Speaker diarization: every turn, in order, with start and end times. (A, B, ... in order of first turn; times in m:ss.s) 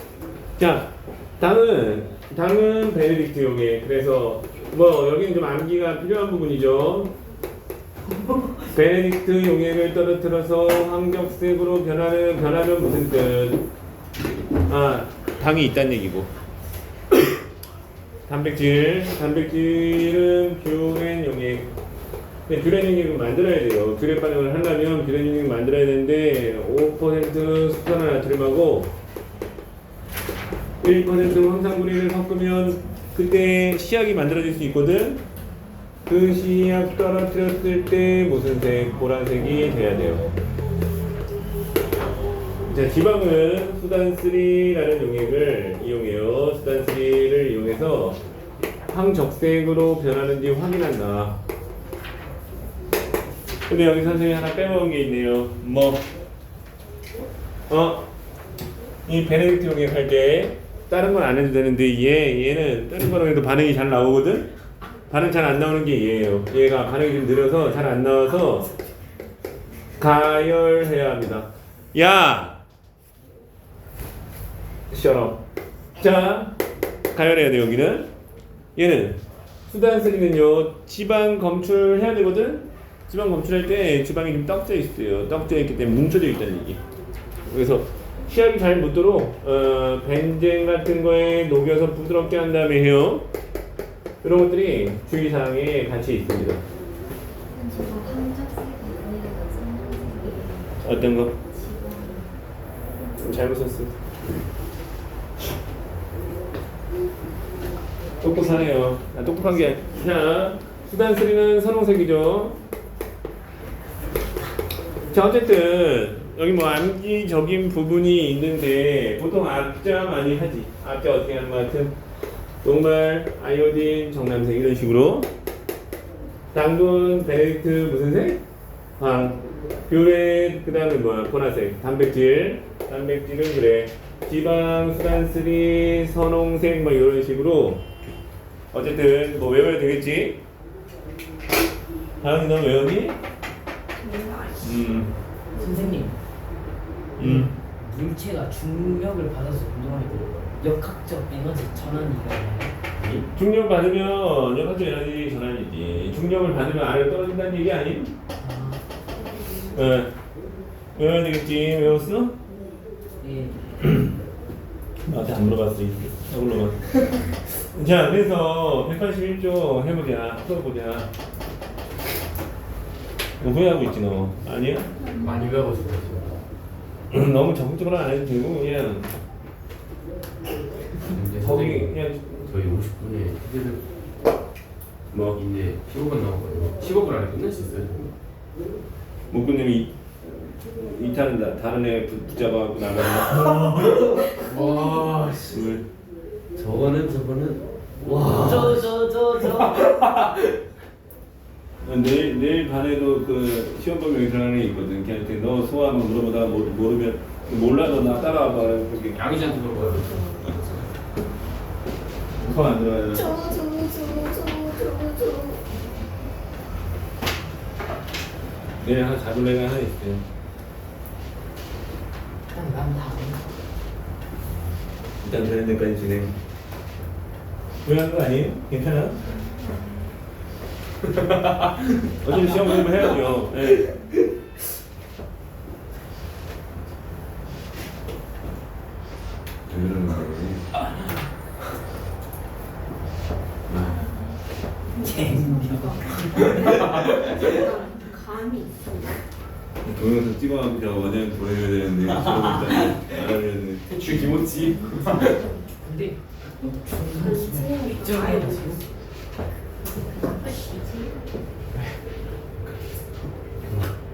0:00.6-0:07.1 A
0:08.3-0:08.6 B
0:08.7-0:13.6 A
0:14.7-0:16.3 A
0:18.3-0:21.7 A
0:22.5-0:28.9 A
0:30.8-0:35.2 A
0:36.0-0:40.3 A
0:42.6-0:48.2 A
0:48.9-0:51.4 A
0:53.7-0:56.0 A
0:57.7-0:58.1 A
0:59.0-1:04.5 A
1:05.1-1:08.7 A
1:10.0-1:12.6 A
1:14.9-1:15.4 A
1:16.0-1:16.6 A
1:17.1-1:18.1 A
1:18.7-1:26.8 A
1:27.4-1:33.2 A
1:34.2-1:36.6 A
1:37.5-1:42.4 C
1:40.8-1:41.3 A
1:43.1-1:44.0 A
1:48.2-1:52.6 A
1:55.1-2:01.9 A
2:02.6-2:05.3 A
2:06.5-2:08.4 A
2:09.0-2:17.8 A
2:18.7-2:20.4 A
2:22.2-2:23.2 A
2:24.0-2:24.7 C
2:24.6-2:25.1 A
2:25.5-2:26.2 B
2:27.2-2:27.5 A
2:27.2-2:32.8 B
2:33.0-2:33.3 D
2:33.3-2:38.1 A
2:38.4-2:38.8 B
2:39.7-2:40.1 A
2:40.9-2:42.3 A
2:43.2-2:43.6 B
2:43.8-2:44.2 A
2:45.1-2:51.1 A
2:53.4-2:54.9 A
2:55.0-2:55.7 C
2:55.2-2:56.3 D
2:57.1-2:59.1 A
3:01.1-3:03.8 D
3:01.4-3:02.5 A
3:05.1-3:05.4 A
3:05.3-3:08.1 D
3:09.3-3:13.8 A
3:13.3-3:15.6 D
3:14.5-3:15.1 C
3:15.5-3:15.8 A
3:16.5-3:18.9 D
3:18.2-3:18.6 A
3:18.3-3:20.0 B
3:19.4-3:20.5 D
3:21.8-3:29.2 A
3:29.1-3:30.9 D
3:32.4-3:33.5 A
3:33.1-3:35.7 C
3:38.8-3:40.2 A
3:42.5-3:43.5 B
3:45.2-3:46.4 A
3:47.8-3:49.2 A
3:49.2-3:50.1 C
3:51.1-3:51.9 D
3:52.2-3:53.9 A
3:59.7-4:00.7 A
4:03.7-4:04.1 A
4:03.9-4:04.2 C
4:04.9-4:09.2 C
4:05.0-4:06.8 B
4:06.3-4:07.4 D
4:09.8-4:13.8 A
4:12.5-4:12.9 B
4:13.8-4:15.4 D
4:14.7-4:15.5 C
4:15.8-4:18.8 B
4:17.2-4:18.8 C
4:19.8-4:21.3 C
4:23.6-4:23.9 D